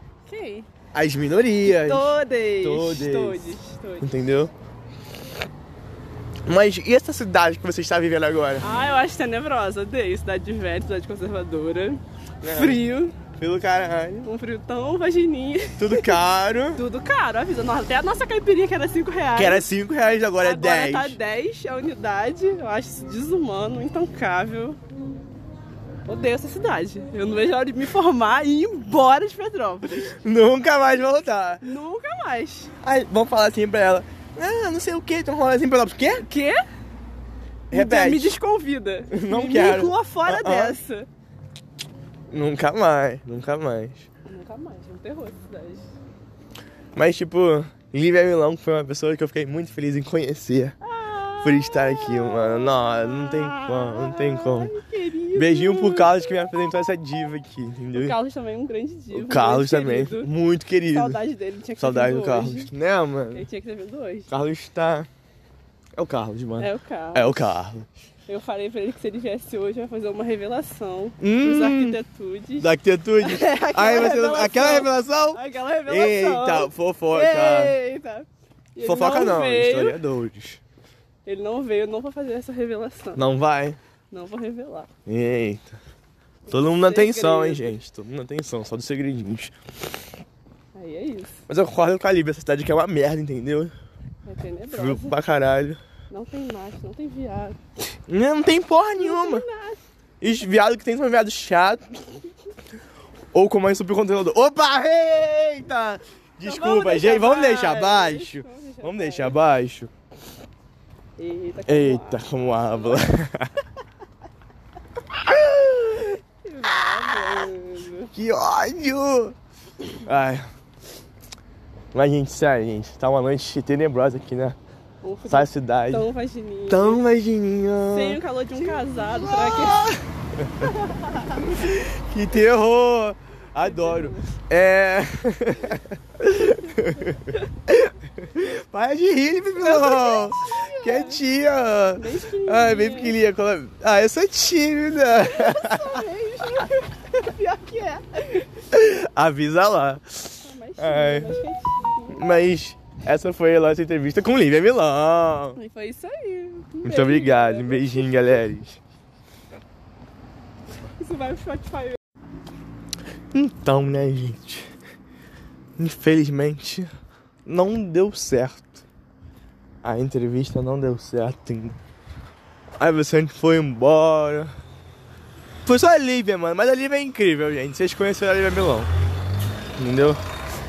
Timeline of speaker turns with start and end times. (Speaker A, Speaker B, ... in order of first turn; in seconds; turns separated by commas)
Speaker A: 0.3-0.7, Speaker B: 0.9-2.1, Speaker A: 1.6-4.1, Speaker B: 2.6-4.5, Speaker B: 6.5-8.7, Speaker A: 8.6-13.2, Speaker B: 12.4-12.8, Speaker B: 13.3-14.3, Speaker A: 14.2-16.2, Speaker B: 15.8-16.8, Speaker A: 16.8-19.6, Speaker B: 19.3-21.2, Speaker A: 20.4-24.8, Speaker A: 26.1-30.1, Speaker B: 30.2-31.6, Speaker A: 31.6-32.7, Speaker B: 32.8-36.2, Speaker A: 36.2-36.6, Speaker B: 37.7-38.3, Speaker A: 37.7-41.1, Speaker B: 39.1-40.8, Speaker B: 42.3-44.1, Speaker A: 44.3-45.9, Speaker B: 46.9-50.8, Speaker A: 50.8-56.4, Speaker B: 51.4-54.7, Speaker B: 55.3-58.1, Speaker A: 58.0-60.3, Speaker B: 59.1-61.2, Speaker A: 60.9-62.7, Speaker B: 61.8-63.5, Speaker A: 63.3-64.3, Speaker B: 64.3-65.1, Speaker B: 66.0-67.9, Speaker A: 66.6-67.5, Speaker A: 68.3-72.7, Speaker B: 71.2-72.0, Speaker B: 72.6-77.7, Speaker A: 73.3-80.0, Speaker B: 78.8-80.6, Speaker A: 81.2-83.2, Speaker B: 83.1-83.8, Speaker A: 84.1-84.9, Speaker B: 85.0-85.8, Speaker B: 86.5-89.5, Speaker A: 86.6-87.8, Speaker A: 90.8-91.4, Speaker B: 91.5-93.7, Speaker A: 94.2-95.1, Speaker B: 94.7-95.8, Speaker A: 96.1-97.6, Speaker B: 98.1-99.4, Speaker A: 99.0-99.8, Speaker B: 100.2-102.1, Speaker B: 103.3-109.9, Speaker A: 106.4-109.3, Speaker A: 111.2-112.3, Speaker B: 111.7-113.5, Speaker B: 115.1-116.1, Speaker A: 116.4-118.1, Speaker B: 118.1-119.3, Speaker B: 120.0-120.4, Speaker B: 121.9-124.6, Speaker A: 125.0-127.0, Speaker B: 125.3-126.1, Speaker B: 126.7-128.2, Speaker A: 127.9-129.9, Speaker B: 128.8-130.7, Speaker B: 131.3-146.0, Speaker A: 133.6-134.2, Speaker A: 139.6-141.2, Speaker A: 142.0-143.1, Speaker A: 145.4-148.4, Speaker B: 148.7-151.4, Speaker A: 150.5-152.2, Speaker B: 152.1-155.6, Speaker A: 155.6-158.3, Speaker B: 156.8-158.8, Speaker A: 161.0-162.0, Speaker B: 163.3-164.7, Speaker B: 165.8-166.9, Speaker B: 167.4-168.8, Speaker B: 169.8-171.8, Speaker B: 172.8-174.5, Speaker B: 175.7-178.9, Speaker B: 179.8-180.2